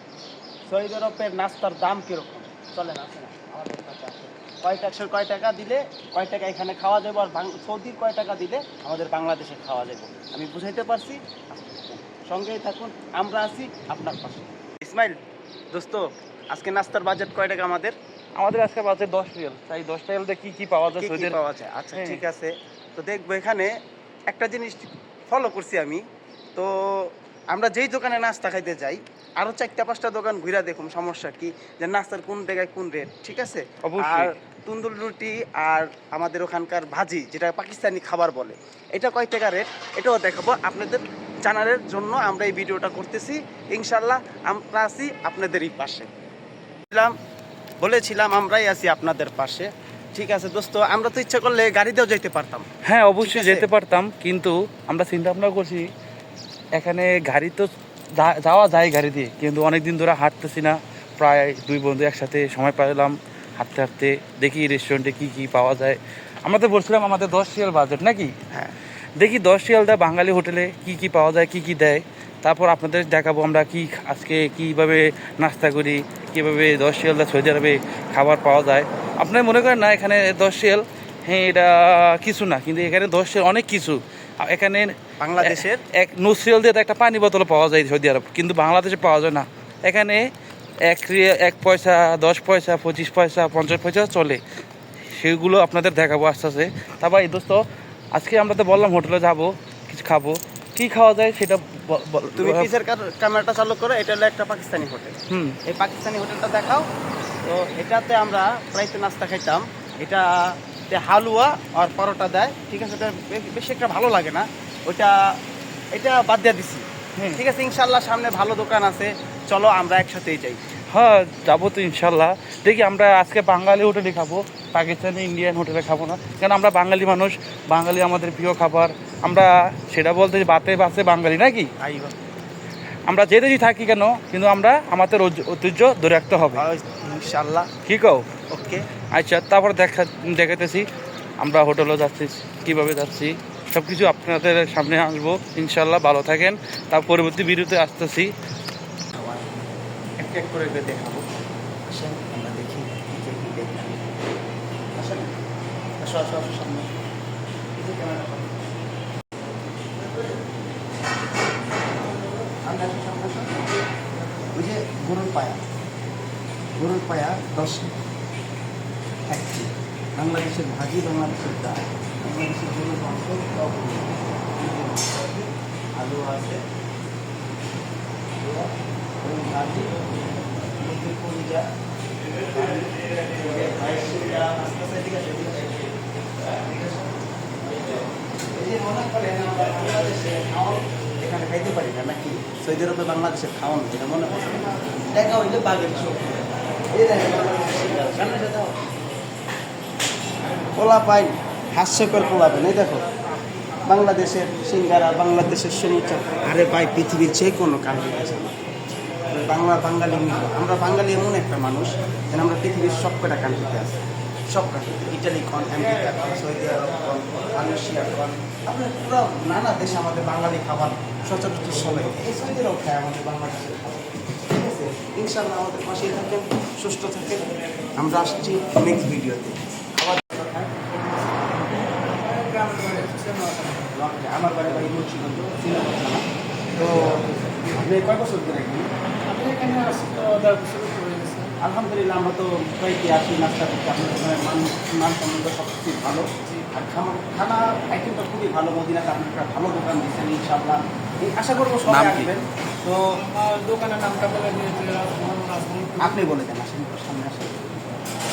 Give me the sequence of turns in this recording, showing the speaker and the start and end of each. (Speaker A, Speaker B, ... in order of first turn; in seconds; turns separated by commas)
Speaker A: 0.7-15.2, Speaker A: 15.7-17.9, Speaker B: 18.4-21.4, Speaker A: 20.9-23.7, Speaker B: 21.9-22.2, Speaker A: 24.3-26.0, Speaker A: 26.6-46.1, Speaker B: 33.8-34.3, Speaker A: 47.8-52.7, Speaker B: 52.8-55.9, Speaker A: 53.2-53.7, Speaker B: 56.8-68.3, Speaker B: 69.2-90.2, Speaker A: 85.2-85.8, Speaker B: 90.8-94.4, Speaker B: 95.2-97.6, Speaker B: 98.2-102.7, Speaker A: 102.4-106.9, Speaker B: 105.3-105.6, Speaker A: 107.4-115.2, Speaker A: 115.9-120.6, Speaker B: 120.9-131.7, Speaker A: 131.8-132.2, Speaker B: 133.1-136.7, Speaker A: 136.5-137.7, Speaker B: 137.8-138.3, Speaker A: 138.5-138.8, Speaker B: 139.1-140.9, Speaker B: 141.4-148.3, Speaker A: 149.1-149.6, Speaker A: 150.2-151.2, Speaker A: 151.8-154.0, Speaker A: 154.9-155.3, Speaker A: 156.0-156.9, Speaker A: 157.8-158.6, Speaker A: 162.5-163.7, Speaker A: 164.5-165.6, Speaker A: 166.8-167.9, Speaker A: 169.3-176.6, Speaker A: 178.4-179.9, Speaker A: 180.8-181.6, Speaker A: 182.4-198.8, Speaker A: 200.8-203.0, Speaker A: 203.8-208.6, Speaker A: 209.3-213.9, Speaker A: 214.5-230.8, Speaker C: 231.0-233.9, Speaker A: 233.9-238.9, Speaker C: 239.3-241.5, Speaker A: 241.6-253.1, Speaker B: 251.9-252.3, Speaker C: 253.2-256.2, Speaker A: 256.0-257.7